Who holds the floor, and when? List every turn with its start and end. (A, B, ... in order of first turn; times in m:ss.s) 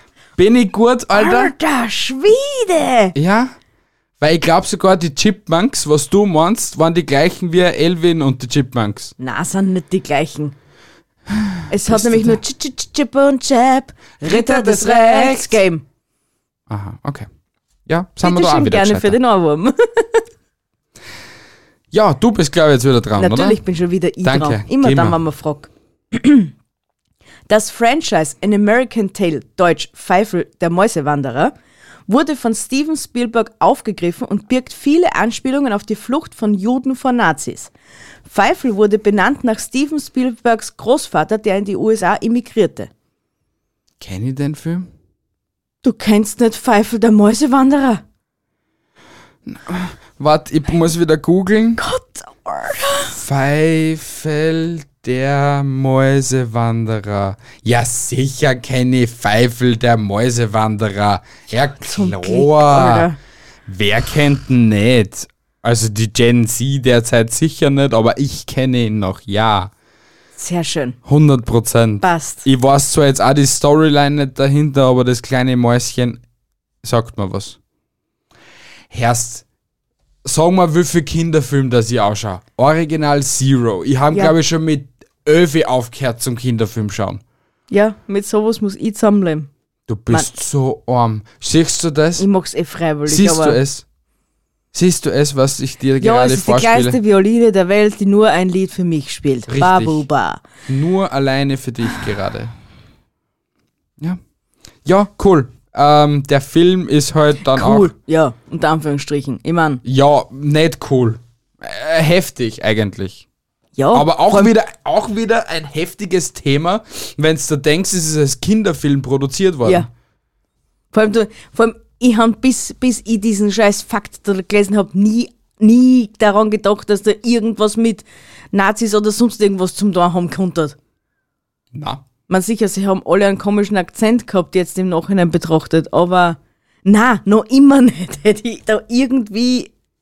0:00.4-0:01.5 A
0:01.1-0:03.1 B
0:03.1-0:03.6 A
0:04.2-0:09.1 A
0:09.2-0:10.6 B
0:11.3-0:12.4 A
0:11.7-0:15.8 B
0:14.2-0:15.6 A
0:16.7-0:17.3 A
0:17.9-0:19.2 A
0:18.2-0:20.2 B
0:21.9-0:23.6 A
0:23.2-0:26.5 B
0:24.2-0:25.2 A
0:27.5-0:31.5 B
0:32.1-0:37.7 B
0:38.2-0:42.9 B
0:44.0-0:44.9 A
0:45.8-0:48.0 B
0:49.4-0:51.8 A
0:51.8-0:53.2 B
0:53.1-1:03.1 A
1:01.8-1:03.2 B
1:03.6-1:09.7 A
1:10.4-1:11.0 B
1:11.0-1:16.2 A
1:12.0-1:12.4 B
1:16.8-1:17.6 A
1:18.9-1:19.4 A
1:20.2-1:27.2 A
1:27.7-1:29.5 B
1:29.9-1:32.3 A
1:32.2-1:33.6 B
1:33.1-1:33.8 A
1:34.7-1:37.0 A
1:36.0-1:40.4 B
1:39.5-1:40.0 A
1:40.7-1:42.5 A
1:44.8-1:47.9 A
1:47.5-1:49.8 B
1:49.8-1:53.2 A
1:53.8-1:54.5 B
1:53.9-1:59.9 A
2:00.9-2:10.7 B
2:11.7-2:12.0 A
2:12.3-2:19.7 B